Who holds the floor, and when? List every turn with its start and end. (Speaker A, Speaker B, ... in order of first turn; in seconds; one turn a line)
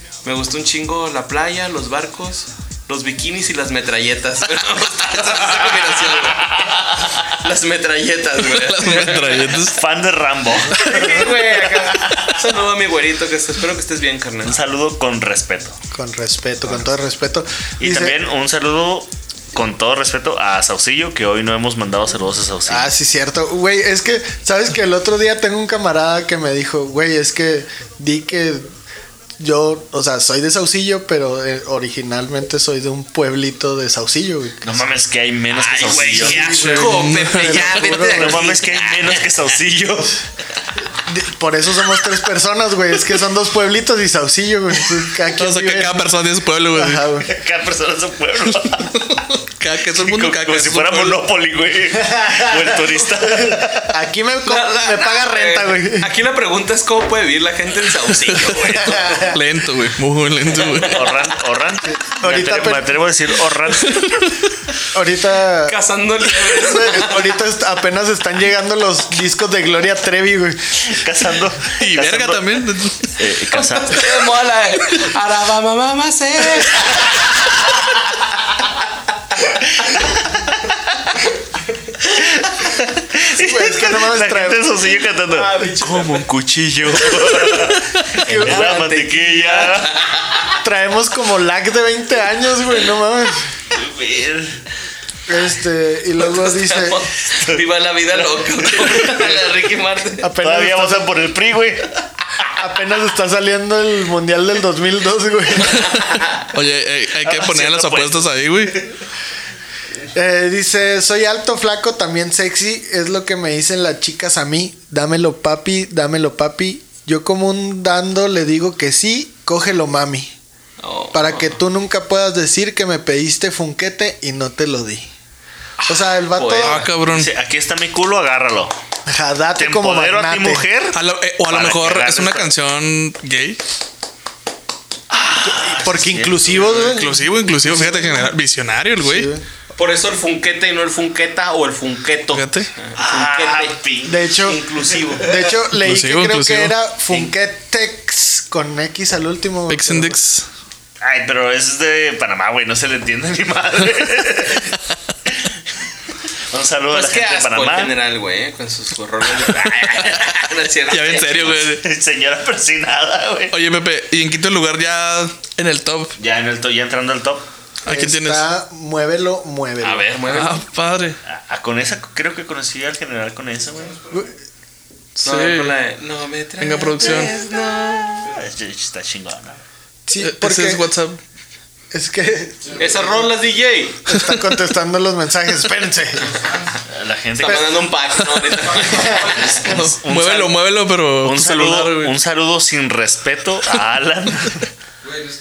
Speaker A: 0.2-9.6
Speaker B: 5.4-6.4
Speaker C: 6.6-7.0
Speaker B: 8.4-9.8
Speaker C: 9.6-12.4
Speaker A: 10.7-14.6
Speaker B: 10.7-11.2
Speaker C: 14.5-15.8
Speaker D: 15.9-18.2
Speaker C: 17.8-22.9
Speaker D: 22.7-28.7
Speaker D: 29.4-34.6
Speaker C: 34.6-36.6
Speaker A: 35.5-39.2
Speaker D: 36.2-38.5
Speaker B: 36.6-37.8
Speaker C: 38.0-40.2
Speaker D: 41.1-46.1
Speaker B: 45.3-47.1
Speaker D: 46.7-47.3
Speaker C: 47.3-49.0
Speaker B: 48.8-51.2
Speaker C: 49.9-54.0
Speaker D: 52.0-56.1
Speaker A: 54.5-59.3
Speaker D: 58.7-59.4
Speaker B: 59.3-61.0
Speaker C: 60.7-64.2
Speaker D: 62.0-62.9
Speaker B: 63.8-64.4
Speaker D: 64.9-65.8
Speaker A: 65.7-67.4
Speaker D: 66.6-70.8
Speaker C: 70.8-74.2
Speaker B: 71.8-73.2
Speaker A: 73.5-77.7
Speaker C: 79.8-80.4
Speaker C: 82.1-90.0
Speaker D: 83.3-84.8
Speaker A: 85.3-86.3
Speaker D: 88.2-89.1
Speaker A: 88.2-90.6
Speaker D: 90.6-93.5
Speaker C: 93.7-94.6
Speaker D: 95.3-97.0
Speaker A: 96.2-100.3
Speaker C: 98.7-99.4
Speaker D: 100.2-101.2
Speaker C: 100.4-102.0
Speaker D: 102.5-106.0
Speaker B: 105.8-108.9
Speaker A: 106.0-106.4
Speaker C: 107.2-108.3
Speaker D: 110.1-120.3
Speaker A: 120.8-121.6
Speaker D: 121.1-125.1
Speaker A: 125.8-126.9
Speaker D: 125.9-126.8
Speaker B: 126.6-127.3
Speaker C: 127.0-128.7
Speaker D: 129.1-130.7
Speaker C: 129.6-132.5
Speaker B: 130.9-133.6
Speaker C: 135.1-136.7
Speaker D: 135.4-138.3
Speaker B: 136.8-139.3
Speaker D: 139.0-139.4
Speaker A: 139.8-145.3
Speaker B: 142.3-142.7
Speaker C: 143.0-144.2
Speaker D: 144.1-144.6
Speaker D: 145.2-150.2
Speaker B: 145.7-146.8
Speaker B: 149.7-150.5
Speaker C: 151.0-154.8
Speaker C: 156.5-158.0
Speaker A: 156.9-161.7
Speaker B: 160.9-161.9
Speaker C: 161.5-163.6
Speaker B: 163.5-166.2
Speaker C: 166.2-167.5
Speaker B: 167.8-168.4
Speaker D: 167.9-170.1
Speaker A: 169.8-170.6
Speaker B: 170.3-171.2
Speaker C: 171.2-174.1
Speaker D: 174.1-174.3
Speaker B: 175.2-175.7
Speaker A: 175.2-178.3
Speaker B: 176.6-177.4
Speaker C: 178.2-179.6
Speaker D: 180.1-180.9
Speaker B: 180.2-181.2
Speaker D: 181.9-183.3
Speaker A: 182.7-184.1
Speaker D: 184.1-186.4
Speaker B: 184.1-184.4
Speaker C: 186.9-187.8
Speaker A: 187.4-189.7
Speaker C: 189.2-194.7
Speaker B: 189.6-192.1